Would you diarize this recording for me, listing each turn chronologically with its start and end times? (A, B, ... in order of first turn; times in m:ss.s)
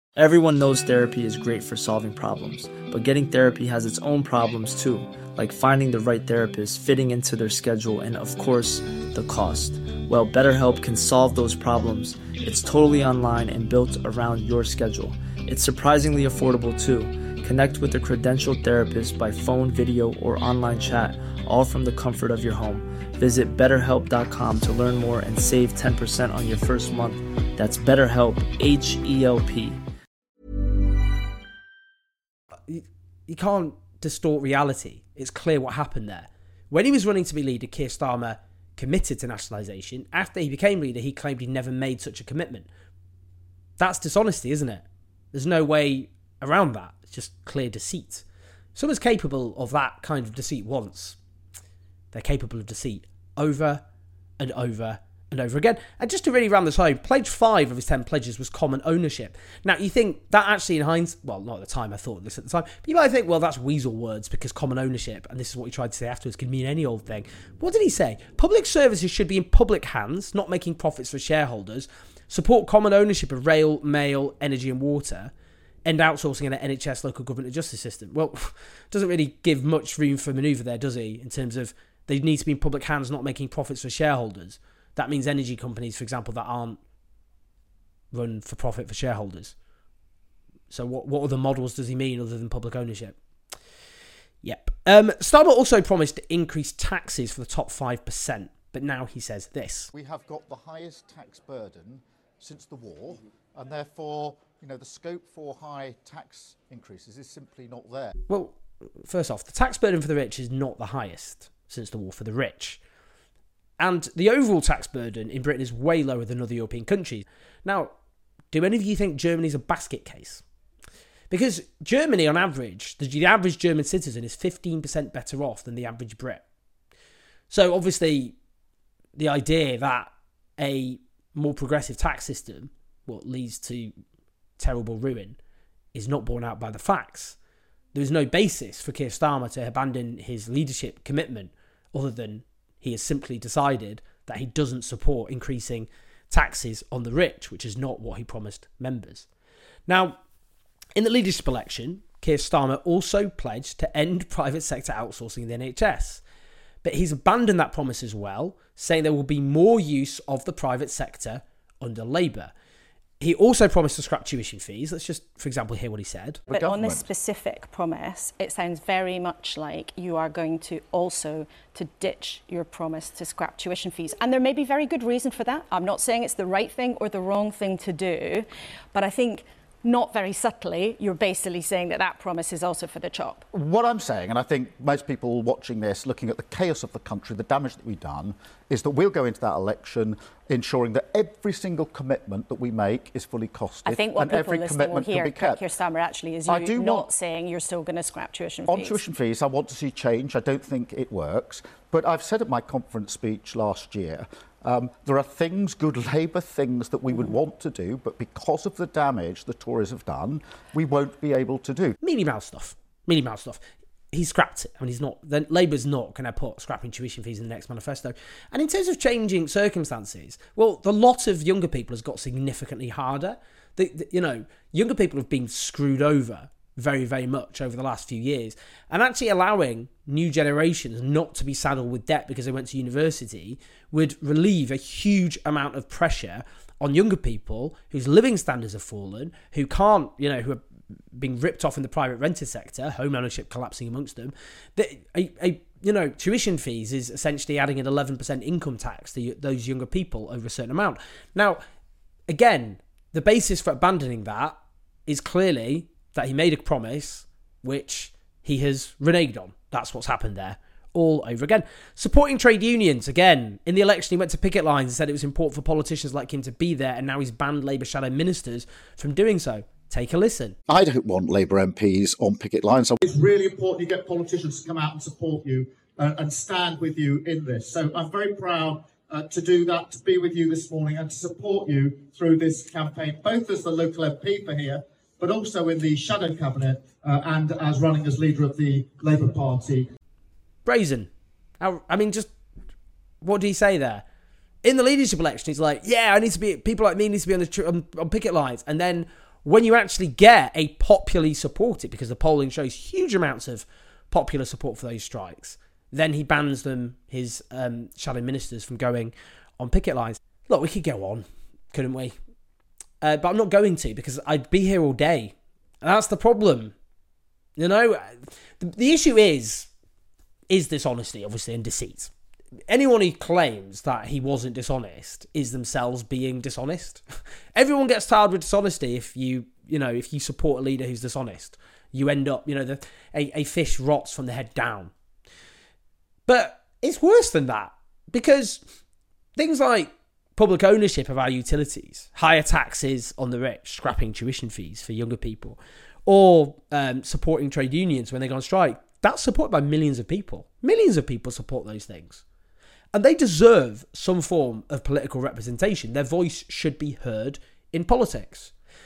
0:00.2-0:29.8 A
0:32.7-0:42.7 B
0:43.8-0:48.2 B
0:48.8-0:51.2 B
0:52.1-0:53.8 B
0:54.4-1:15.3 B
1:15.9-1:26.8 B
1:28.1-1:29.6 B
1:30.7-1:33.2 B
1:34.4-1:39.9 B
1:39.9-1:48.1 C
1:48.3-1:52.8 B
1:53.8-1:57.9 B
1:58.5-2:00.4 B
2:01.3-2:06.4 B
2:07.5-2:08.4 B
2:09.2-2:13.9 B
2:14.6-2:15.4 B
2:15.9-2:17.4 B
2:18.0-2:29.3 B
2:29.9-2:30.2 B
2:31.0-2:36.2 B
2:36.8-2:42.5 B
2:43.2-2:46.4 B
2:46.5-2:47.1 C
2:46.5-3:03.4 D
3:03.5-3:15.6 C
3:13.8-3:19.0 D
3:16.5-3:17.1 C
3:18.7-3:32.0 C
3:32.0-4:00.6 B
4:01.2-4:11.6 B
4:12.3-4:14.6 B
4:15.1-4:30.6 B
4:30.7-4:33.0 C
4:33.0-4:49.8 E
4:50.7-4:51.1 B
4:51.6-4:52.3 B
4:53.2-4:54.0 B
4:54.6-5:12.2 B
5:13.0-5:16.8 B
5:17.6-5:19.7 B
5:20.5-5:22.1 B
5:22.7-5:27.0 B
5:27.6-5:34.9 B
5:36.3-5:38.6 B
5:39.4-5:52.2 B
5:52.9-5:58.5 B